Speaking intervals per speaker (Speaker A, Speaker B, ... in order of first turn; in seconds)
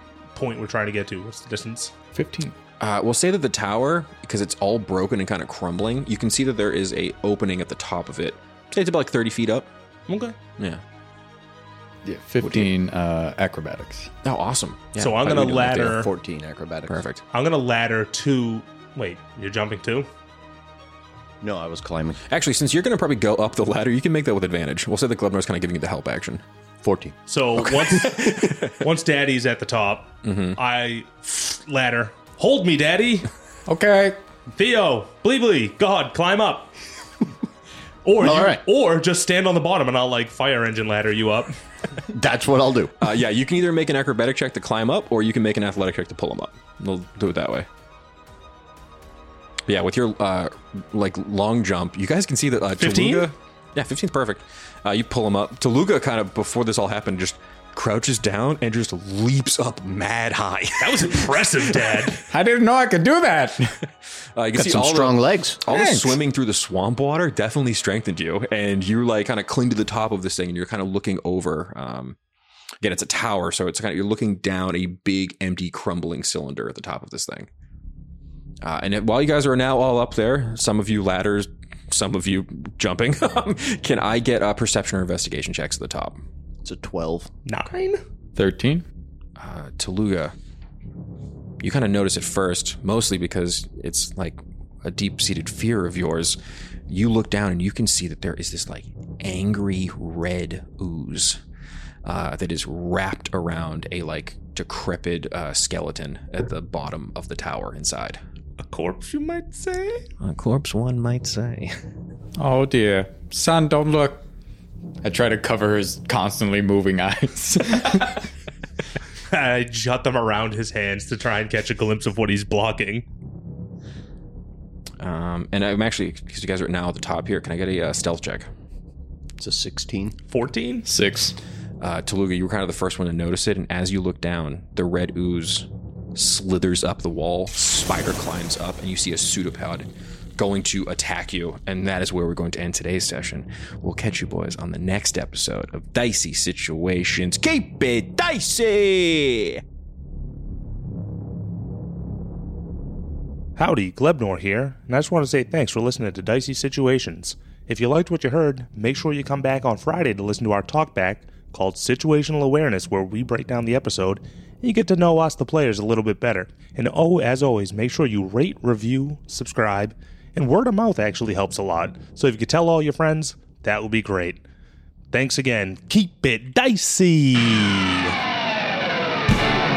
Speaker A: 0.3-1.9, 10.1-10.4, 14.9-16.1, 17.3-20.1, 27.3-33.3, 34.5-36.7, 38.0-41.5, 52.8-53.3, 60.8-62.2, 87.4-88.0, 108.6-110.1, 119.3-123.0, 130.3-130.9, 153.6-174.4, 175.1-178.2
Speaker B: 2.1-2.5, 12.0-14.1, 33.7-34.2, 62.3-63.8, 65.7-66.2, 88.4-88.9, 112.4-114.2, 115.0-118.2, 130.9-131.4
Speaker C: 2.8-9.7, 14.2-16.0, 16.9-17.2, 22.3-26.4, 27.6-28.8, 30.2-30.6, 43.0-47.7, 49.7-62.1, 64.4-72.2, 72.8-77.5, 78.6-86.2, 89.4-90.3, 91.6-96.4, 96.9-101.4, 102.0-108.2, 110.2-111.8, 125.0-128.5, 131.8-149.6
Speaker D: 15.9-17.0, 21.4-22.2, 26.8-27.2, 38.2-38.6, 42.1-42.9, 64.5-65.6, 86.6-87.3, 129.4-130.2